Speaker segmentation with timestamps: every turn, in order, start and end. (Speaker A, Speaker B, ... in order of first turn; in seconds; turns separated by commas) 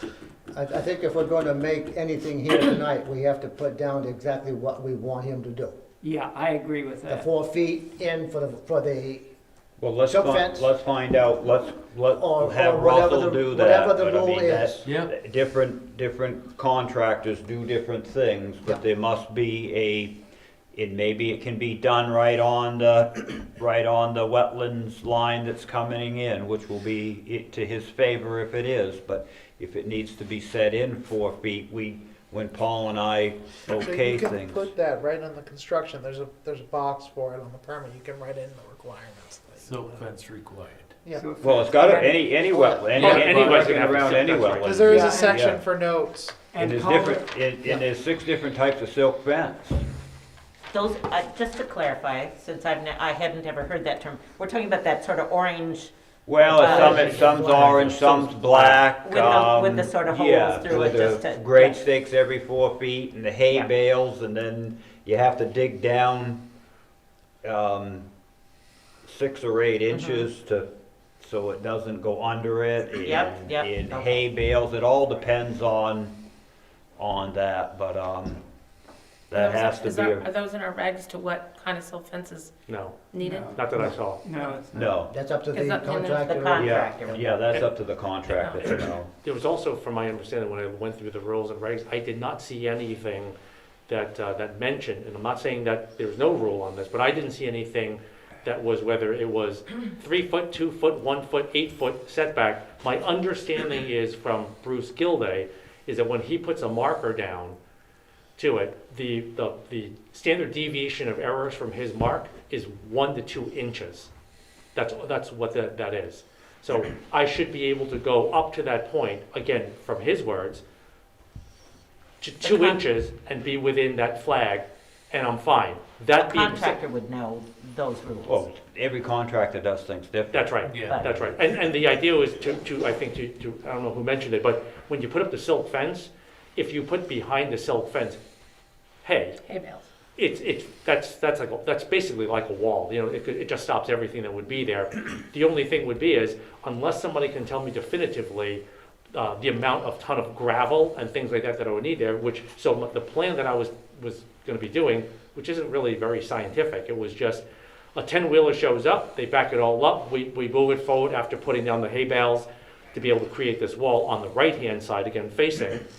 Speaker A: 0.5-5.8, Speaker B: 6.0-7.2, Speaker A: 7.1-9.2, Speaker C: 9.8-20.1, Speaker A: 10.1-10.7, Speaker A: 12.2-14.9, Speaker D: 14.8-15.1, Speaker C: 20.7-34.7, Speaker E: 33.7-40.0, Speaker D: 39.6-41.0, Speaker E: 41.0-41.3, Speaker B: 41.1-42.1, Speaker C: 41.4-45.6, Speaker E: 42.6-43.2, Speaker D: 42.9-43.5, Speaker F: 43.0-45.1, Speaker E: 44.6-46.5, Speaker B: 44.9-45.2, Speaker B: 46.5-47.7, Speaker C: 46.5-49.8, Speaker G: 50.7-55.9, Speaker C: 56.2-66.4, Speaker A: 56.5-58.4, Speaker G: 56.6-57.2, Speaker F: 56.7-57.9, Speaker G: 59.0-61.8, Speaker C: 67.4-68.1, Speaker C: 69.0-70.7, Speaker G: 69.9-70.2, Speaker C: 71.2-76.2, Speaker G: 73.0-74.3, Speaker C: 77.0-78.4, Speaker C: 79.3-80.3, Speaker H: 79.3-82.5, Speaker F: 82.7-84.2, Speaker H: 83.1-83.5, Speaker B: 83.2-85.0, Speaker C: 84.7-85.1, Speaker A: 85.1-86.7, Speaker H: 85.5-86.7, Speaker G: 86.3-87.6, Speaker C: 86.5-89.1, Speaker F: 88.4-93.3, Speaker F: 93.9-107.6, Speaker F: 108.4-114.1, Speaker F: 114.7-120.6, Speaker F: 122.2-126.8, Speaker G: 122.4-122.8, Speaker G: 126.2-128.4, Speaker C: 128.2-130.5, Speaker F: 130.3-138.2, Speaker D: 130.6-131.0, Speaker G: 130.8-131.3, Speaker F: 139.0-139.4, Speaker H: 139.4-139.8, Speaker F: 140.2-157.4, Speaker F: 157.9-165.8